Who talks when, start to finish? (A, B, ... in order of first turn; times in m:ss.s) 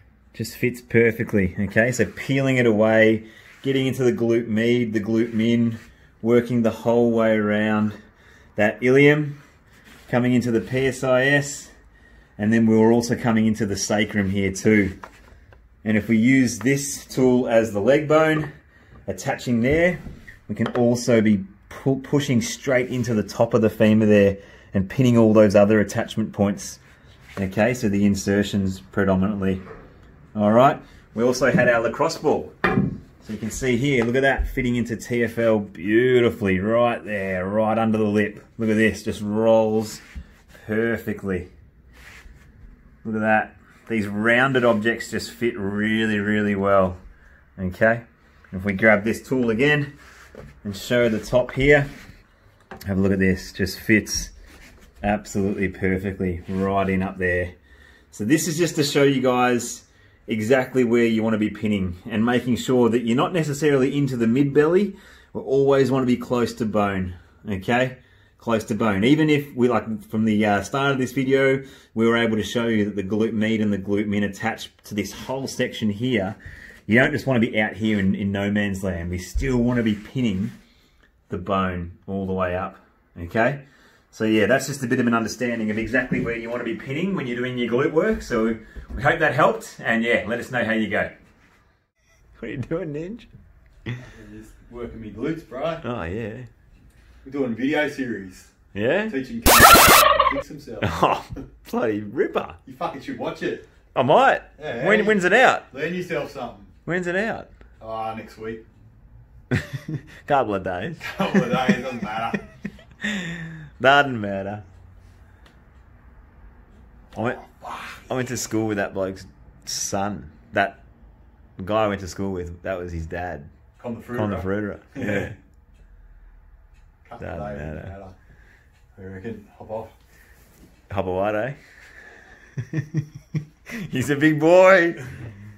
0:00.3-0:08.0 A
0:08.6-0:09.4 A
0:10.1-0:11.7 A
0:12.4-0:15.0 A
0:15.8-0:18.5 A
0:19.1-0:26.8 A
0:27.4-0:29.6 A
0:30.4-0:40.0 A
0:40.5-0:41.5 A
0:43.0-0:47.0 A
0:47.6-0:49.9 A
0:50.6-0:51.9 A
0:52.9-0:54.3 A
0:55.0-0:57.6 A
0:58.1-1:20.6 A
1:21.3-1:31.1 A
1:32.4-1:33.3 A
1:34.0-1:35.8 B
1:35.8-1:36.5 A
1:37.2-1:38.5 B
1:38.7-1:39.2 A
1:39.1-1:40.9 B
1:40.8-1:42.6 A
1:42.7-1:43.7 B
1:44.0-1:45.7 A
1:44.6-1:46.7 B
1:46.9-1:47.5 A
1:47.8-1:48.6 B
1:49.5-1:51.9 A
1:51.0-1:52.4 B
1:53.0-1:54.6 A
1:57.1-2:00.8 A
1:57.6-1:58.0 B
2:01.6-2:03.5 A
2:03.8-2:05.3 B
2:04.1-2:05.4 A
2:07.0-2:08.2 B
2:07.2-2:07.9 A
2:09.0-2:09.9 B
2:10.9-2:11.6 A
2:12.6-2:13.0 A
2:13.7-2:15.1 A